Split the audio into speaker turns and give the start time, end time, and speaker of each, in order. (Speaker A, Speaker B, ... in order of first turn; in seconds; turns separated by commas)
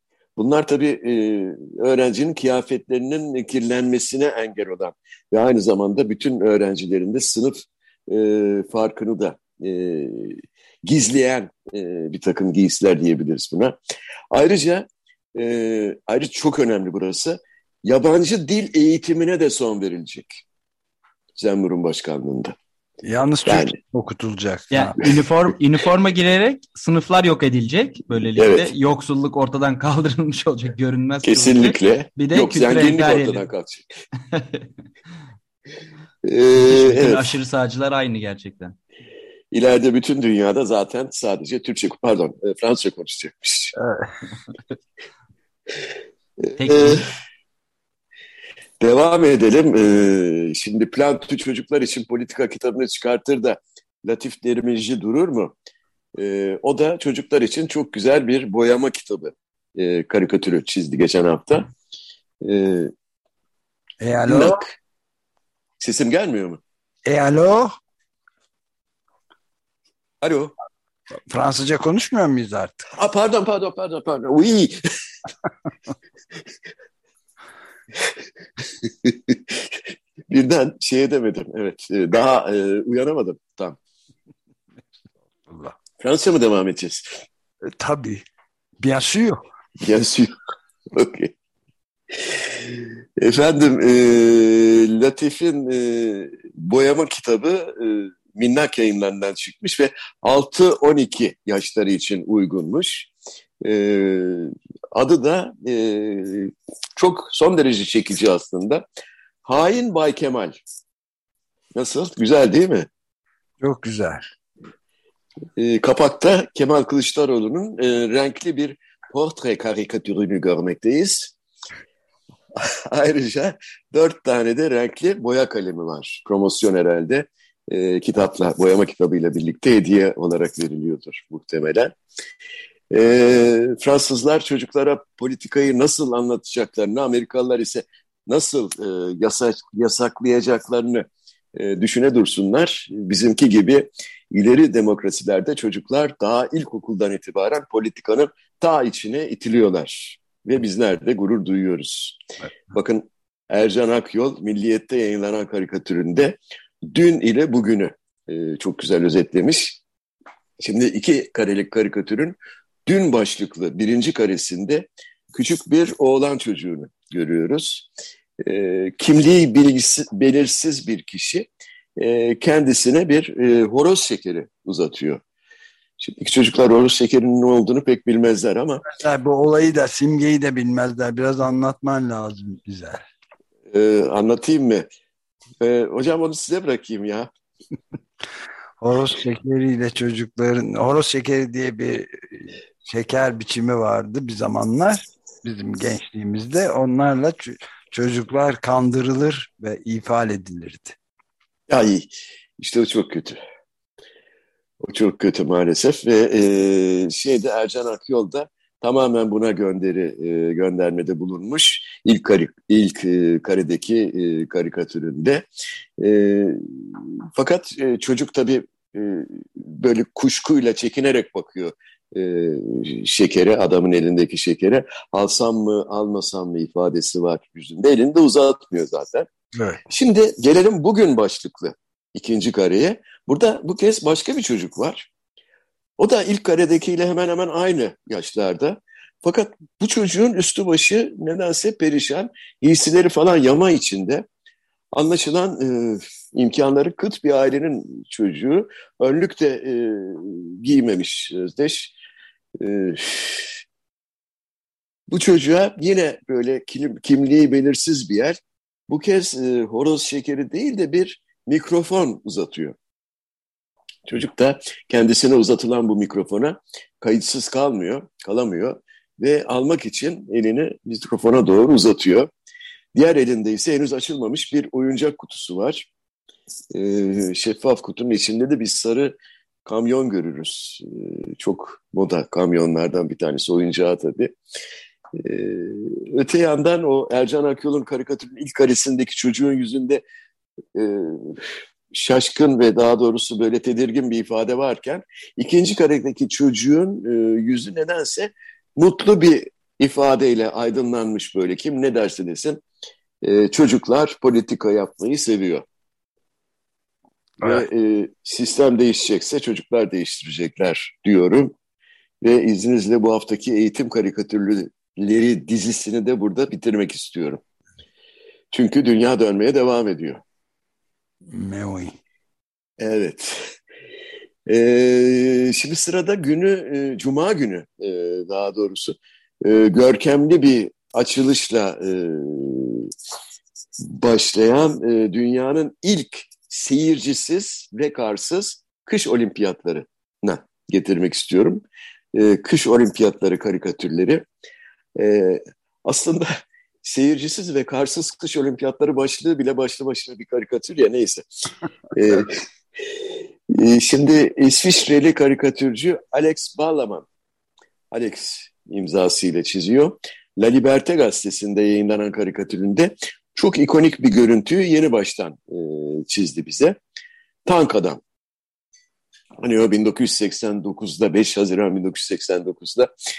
Speaker A: 0.4-13.8, Speaker A: 14.3-20.4, Speaker A: 21.4-22.6, Speaker B: 23.0-25.1, Speaker A: 23.5-23.8, Speaker C: 24.7-33.5, Speaker A: 28.4-28.7, Speaker A: 31.2-33.9, Speaker C: 34.3-34.7, Speaker A: 36.2-37.3, Speaker C: 36.5-38.8, Speaker A: 39.5-43.8, Speaker B: 43.8-44.1, Speaker A: 46.4-47.0, Speaker C: 46.6-47.1, Speaker A: 48.8-55.5, Speaker A: 56.2-61.7, Speaker A: 62.4-62.9, Speaker B: 64.0-64.6, Speaker A: 64.3-64.7, Speaker A: 65.8-66.6, Speaker B: 67.0-67.8, Speaker A: 70.2-70.5, Speaker B: 71.2-72.9, Speaker A: 72.9-74.8, Speaker A: 78.8-79.8, Speaker A: 80.3-83.8, Speaker B: 85.5-85.8, Speaker A: 86.0-87.2, Speaker B: 87.7-88.2, Speaker B: 88.8-89.5, Speaker A: 89.8-90.3, Speaker A: 90.9-91.3, Speaker A: 92.2-103.1, Speaker A: 103.6-108.8, Speaker A: 109.5-110.6, Speaker A: 111.8-112.9, Speaker B: 113.6-114.2, Speaker A: 115.6-121.3, Speaker A: 122.6-132.0, Speaker A: 132.9-159.8, Speaker A: 160.6-167.9, Speaker A: 168.4-175.2, Speaker A: 176.0-178.8, Speaker B: 178.8-183.0, Speaker A: 183.7-184.9, Speaker A: 185.6-187.3, Speaker B: 188.8-201.0, Speaker A: 201.7-203.4, Speaker A: 204.8-215.5, Speaker A: 216.0-229.3, Speaker B: 229.5-229.8, Speaker A: 229.9-235.1, Speaker A: 236.0-244.3, Speaker A: 244.9-251.9, Speaker A: 252.6-253.6, Speaker A: 255.1-258.4, Speaker A: 258.9-262.8, Speaker A: 264.1-272.3, Speaker A: 272.9-275.9, Speaker A: 276.7-284.4, Speaker A: 285.1-290.0, Speaker A: 290.8-302.6, Speaker A: 303.2-305.6, Speaker B: 307.4-307.7, Speaker A: 307.4-311.6, Speaker A: 312.2-317.4, Speaker A: 318.5-320.2, Speaker B: 321.3-321.9, Speaker A: 322.8-323.6, Speaker A: 324.5-332.9, Speaker A: 333.8-344.2, Speaker A: 345.0-357.1, Speaker A: 357.9-366.8, Speaker A: 367.5-368.0, Speaker A: 369.4-372.9